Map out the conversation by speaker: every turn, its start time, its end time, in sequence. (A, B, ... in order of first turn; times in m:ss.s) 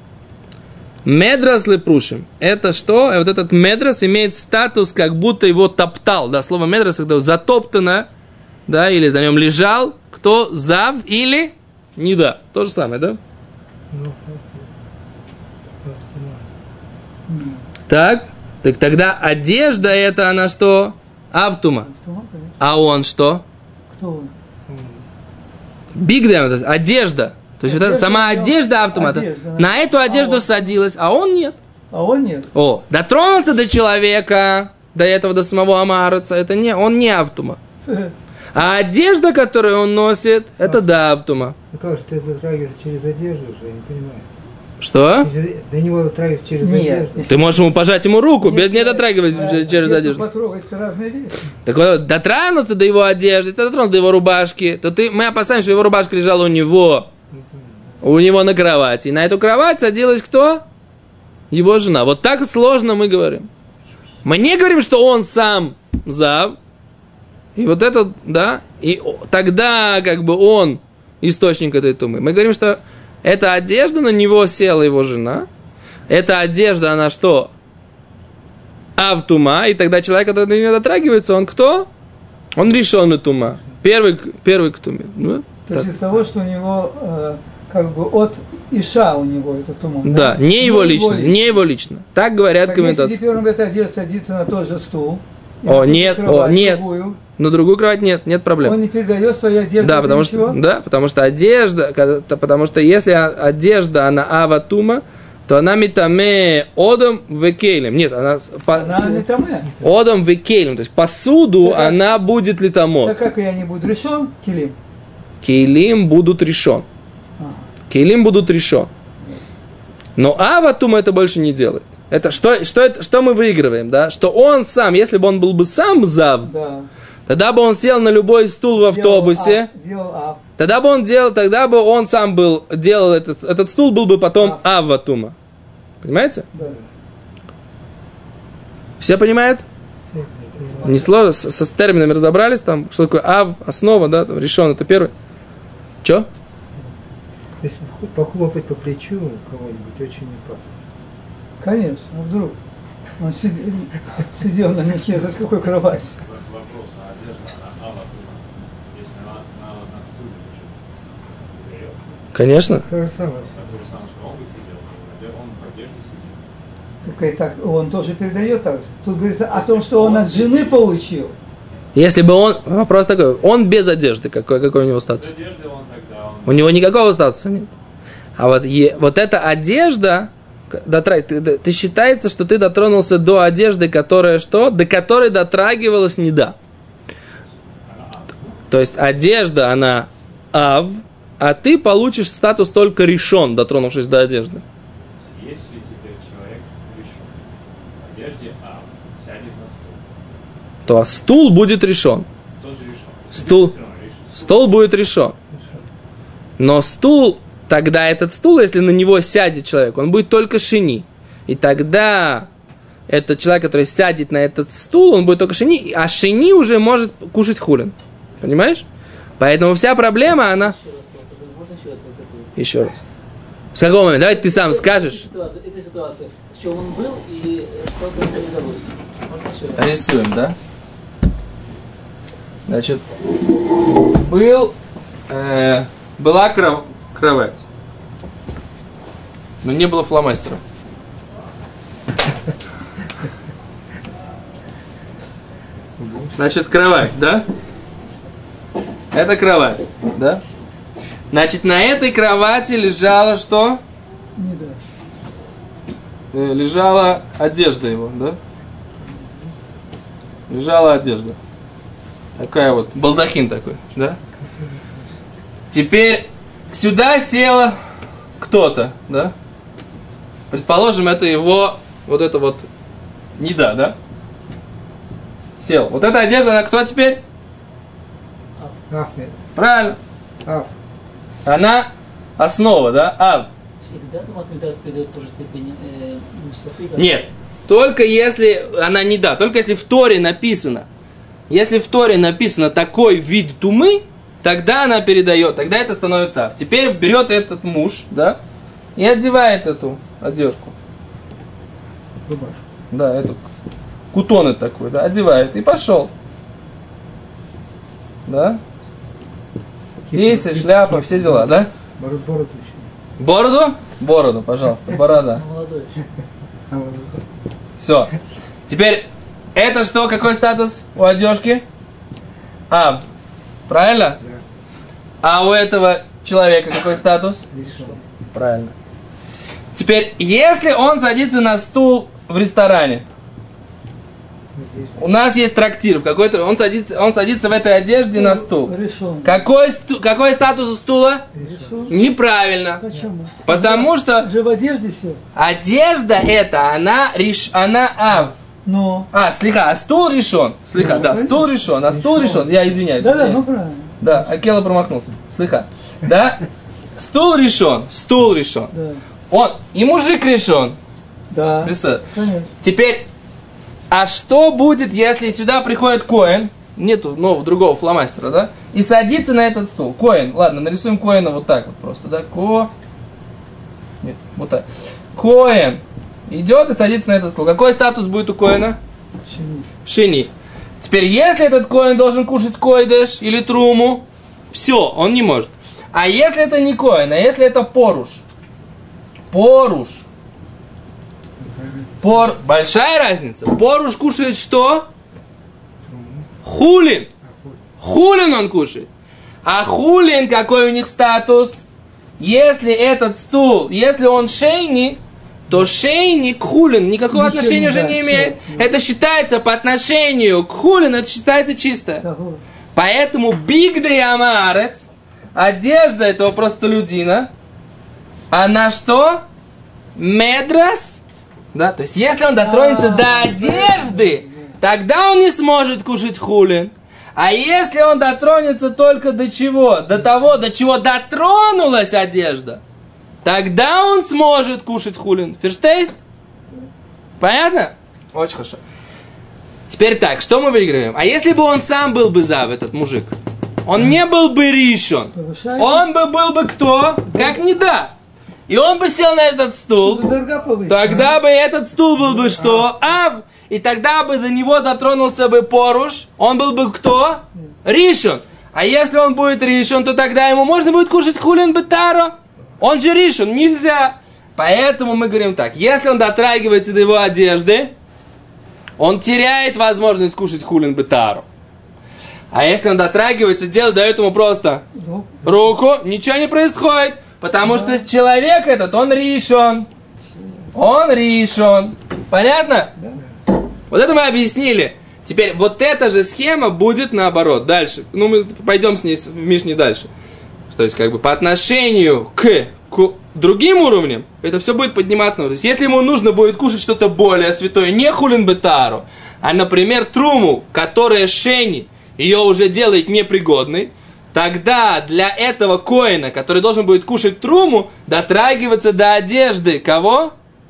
0:01.0-0:08.1 A
0:08.7-0:13.2 A
0:13.9-0:14.7 B
0:15.8-0:16.5 B
0:17.3-0:17.6 C
0:17.9-0:21.9 A
0:21.8-0:22.6 C
0:22.6-0:23.4 A
0:23.9-0:24.3 C
0:24.7-0:25.1 B
0:25.9-0:31.6 A
0:27.6-0:30.5 C
0:31.9-0:32.5 C
0:32.5-0:37.6 A
0:37.9-0:38.1 C
0:38.5-0:41.6 A
0:41.7-0:44.3 B
0:44.8-0:45.3 A
0:45.2-0:47.6 B
0:46.6-0:47.6 C
0:47.3-0:50.2 A
0:48.4-0:51.5 C
0:51.6-0:57.1 A
0:57.3-0:58.0 B
0:58.0-1:00.6 A
1:01.5-1:03.5 A
1:04.2-1:06.6 A
1:07.6-1:15.5 A
1:16.1-1:17.5 A
1:19.0-1:21.9 A
1:22.6-1:25.9 A
1:25.7-1:31.6 C
1:30.0-1:33.1 A
1:32.6-1:37.2 C
1:35.7-1:36.8 A
1:37.4-1:38.8 A
1:38.6-1:40.6 C
1:39.8-1:49.3 A
1:48.7-1:49.7 C
1:49.8-1:53.2 A
1:51.6-1:52.0 C
1:53.0-1:54.8 C
1:55.4-1:56.9 A
1:57.4-1:57.7 C
1:57.9-1:58.9 A
2:00.2-2:06.5 A
2:06.4-2:06.9 C
2:07.3-2:09.7 A
2:08.8-2:10.4 C
2:10.6-2:15.4 A
2:14.4-2:14.6 C
2:16.0-2:16.5 A
2:16.6-2:16.9 B
2:19.0-2:19.6 A
2:20.0-2:21.1 B
2:20.8-2:25.1 A
2:27.6-2:30.8 B
2:31.6-2:32.6 C
2:33.2-2:36.2 C
2:36.2-2:40.8 D
2:41.4-2:42.0 D
2:42.3-2:42.9 A
2:42.7-2:43.8 B
2:43.4-2:46.4 D
2:47.0-2:51.4 C
2:49.4-2:50.9 D
2:51.9-2:55.3 A
2:55.2-2:56.8 D
2:56.5-2:57.7 A
2:58.4-3:06.6 A
3:07.8-3:08.6 D
3:08.7-3:14.6 A
3:15.2-3:17.4 D
3:18.0-3:20.1 D
3:20.9-3:22.3 A
3:22.6-3:24.8 D
3:23.3-3:23.7 A
3:24.4-3:25.4 A
3:26.6-3:32.5 A
3:33.1-3:38.8 A
3:39.4-3:40.8 A
3:40.3-3:42.5 E
3:42.6-3:43.0 A
3:43.7-3:45.2 A
3:44.1-3:50.0 E
3:49.8-3:50.6 A
3:52.7-3:53.0 A
3:54.0-3:54.8 A
3:55.3-3:57.6 A
3:59.6-4:00.6 A
4:06.0-4:06.3 B
4:06.4-4:07.4 A
4:09.1-4:10.4 A
4:11.3-4:13.8 A
4:14.4-4:14.8 C
4:16.3-4:18.4 A
4:19.2-4:19.4 B
4:20.5-4:21.4 A
4:22.4-4:24.2 A
4:24.3-4:25.2 B
4:25.7-4:27.8 A
4:28.4-4:29.3 A
4:30.5-4:32.7 A
4:33.4-4:34.0 A
4:35.6-4:37.2 A
4:38.9-4:39.4 B
4:39.6-4:40.0 A
4:40.4-4:40.7 B
4:41.4-4:43.5 A
4:43.8-4:47.2 E
4:47.0-4:50.9 A
4:51.5-4:58.4 A
4:59.0-5:00.7 A
5:02.2-5:02.6 B
5:02.9-5:03.5 A
5:04.1-5:06.1 A
5:08.2-5:08.6 A
5:10.0-5:12.9 B
5:10.1-5:11.7 A
5:13.2-5:15.4 A
5:15.1-5:16.0 E
5:16.7-5:17.2 B
5:17.8-5:18.1 A
5:18.7-5:21.6 A
5:22.7-5:23.0 A
5:23.7-5:24.2 A
5:24.2-5:24.4 B
5:25.2-5:27.5 A
5:27.5-5:28.0 B
5:28.3-5:28.7 A
5:29.7-5:33.0 A
5:34.5-5:35.0 B
5:35.0-5:41.3 A
5:38.1-5:39.4 C
5:41.3-5:42.0 B
5:41.4-5:42.0 C
5:41.9-5:42.8 A
5:42.8-5:45.2 C
5:43.4-5:44.3 A
5:45.4-5:48.4 A
5:48.6-5:49.1 C
5:49.1-5:53.5 A
5:50.8-5:52.5 B
5:53.0-5:54.0 C
5:54.0-5:56.5 A
5:57.0-5:58.7 A
5:58.7-5:59.0 C
5:59.3-6:00.8 A
6:01.3-6:02.5 C
6:01.6-6:02.0 A
6:02.6-6:03.0 A
6:03.9-6:12.7 A
6:14.0-6:18.8 A
6:19.3-6:19.7 C
6:19.9-6:28.2 A
6:29.3-6:30.0 A
6:31.4-6:32.3 B
6:32.0-6:34.9 A
6:35.8-6:36.3 B
6:36.4-6:37.1 A
6:37.2-6:37.6 B
6:37.8-6:38.9 A
6:39.4-6:41.6 A
6:42.2-6:52.0 A
6:47.1-6:48.7 C
6:52.0-6:52.4 C
6:52.7-6:57.3 A
6:58.3-6:59.2 A
7:00.0-7:01.0 A
7:01.5-7:12.6 A
7:02.4-7:04.5 C
7:13.2-7:16.0 A
7:17.2-7:18.6 A
7:19.7-7:23.1 A
7:23.6-7:27.9 A
7:25.1-7:25.8 C
7:28.5-7:30.1 A
7:29.8-7:31.2 C
7:30.7-7:47.7 A
7:48.8-7:51.2 A
7:52.3-7:54.6 A
7:54.8-7:55.3 C
7:55.2-7:59.7 A
7:57.5-7:57.8 C
8:00.5-8:02.7 A
8:02.8-8:03.0 C
8:03.7-8:09.9 A
8:10.5-8:30.1 A